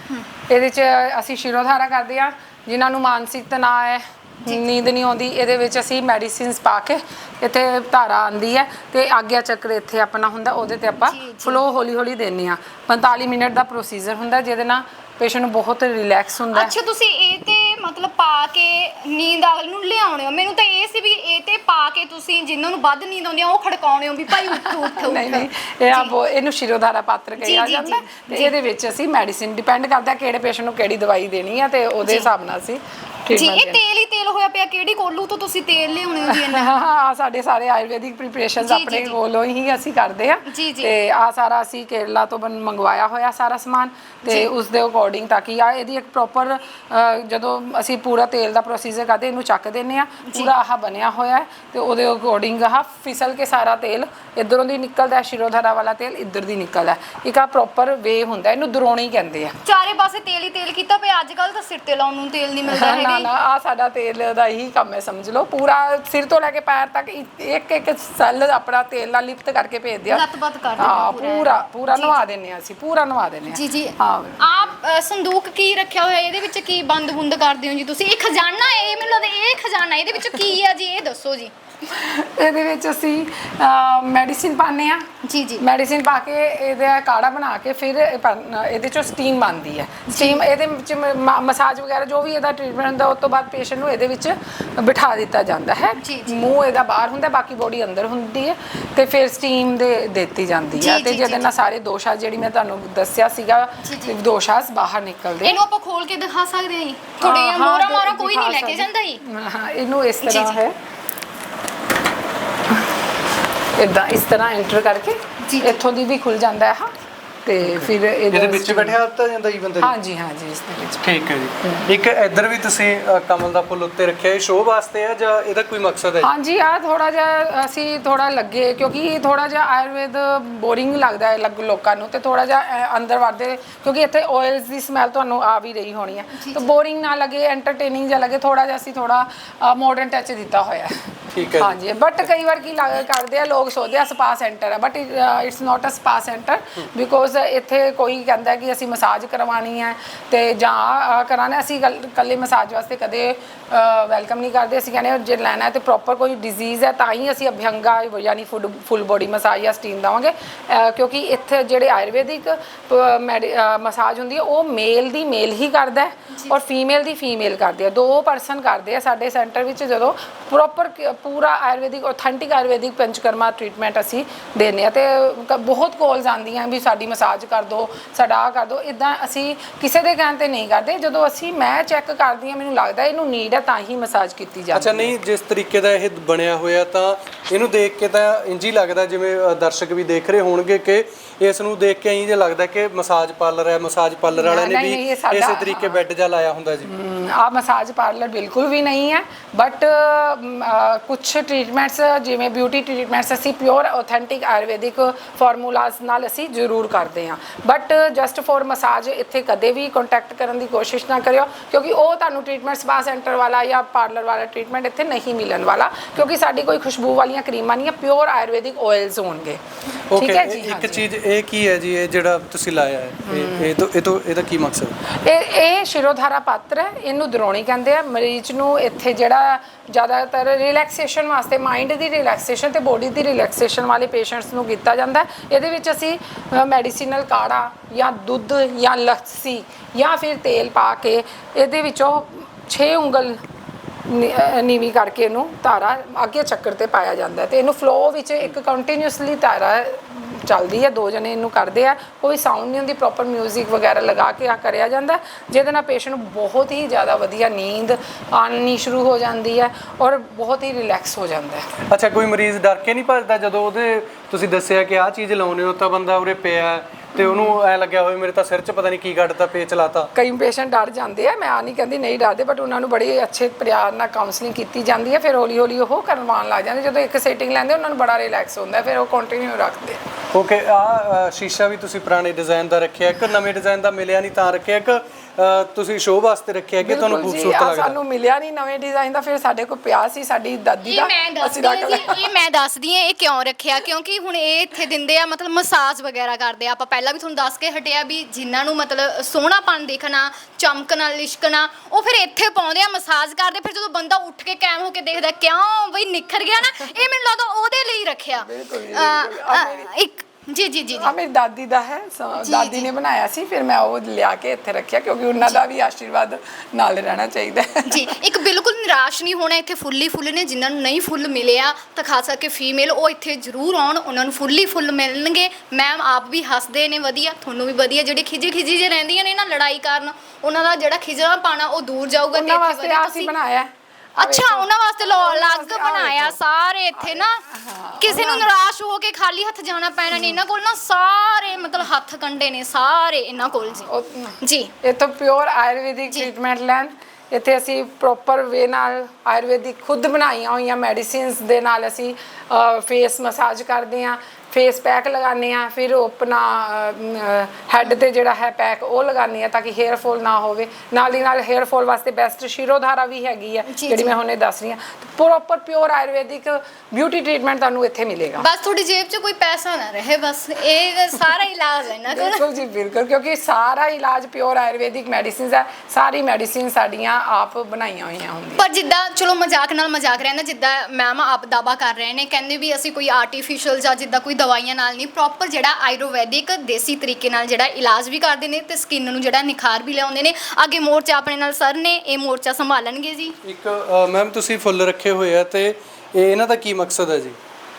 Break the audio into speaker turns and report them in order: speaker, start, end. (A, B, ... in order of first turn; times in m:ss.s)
0:00.5-0:16.7 A
0:11.1-0:11.6 B
0:16.5-0:26.1 B
0:24.3-0:33.8 A
0:27.4-0:28.5 B
0:32.0-0:32.3 B
0:33.3-0:36.7 B
0:36.3-0:59.6 A
0:38.6-0:39.2 B
0:40.5-0:40.9 B
0:50.2-0:50.5 B
0:59.6-1:03.3 B
1:02.7-1:10.2 A
1:10.1-1:12.2 B
1:10.8-1:14.4 A
1:13.5-1:21.5 B
1:21.8-1:25.1 A
1:25.2-1:25.6 B
1:25.6-1:45.6 A
1:30.1-1:30.5 B
1:36.0-1:36.4 B
1:40.8-1:41.5 B
1:43.8-1:44.2 B
1:45.4-1:49.2 B
1:47.2-1:50.8 A
1:50.2-1:50.6 B
1:53.8-1:59.0 A
1:55.4-1:55.8 B
1:57.6-2:00.0 C
1:59.8-2:01.1 A
2:01.0-2:06.3 C
2:06.2-3:05.1 A
2:16.4-2:16.7 B
2:21.3-2:21.8 C
3:04.7-3:16.9 C
3:14.3-3:16.0 A
3:16.9-3:41.1 A
3:40.1-3:45.0 C
3:43.3-3:43.7 A
3:45.1-4:03.4 A
4:04.1-4:21.7 A
4:21.9-4:30.1 C
4:27.2-4:27.6 A
4:30.2-4:40.0 A
4:40.3-4:48.0 C
4:46.8-4:52.3 A
4:50.8-5:11.1 B
5:08.4-5:09.9 A
5:11.0-5:18.2 A
5:12.4-5:12.9 B
5:17.9-5:33.3 B
5:32.3-5:36.4 A
5:34.2-5:37.4 B
5:37.0-5:38.5 A
5:38.0-5:44.7 B
5:43.8-6:08.5 A
6:03.7-6:04.2 B
6:08.4-6:12.4 B
6:12.1-6:18.6 A
6:18.6-6:33.4 B
6:33.4-6:37.4 C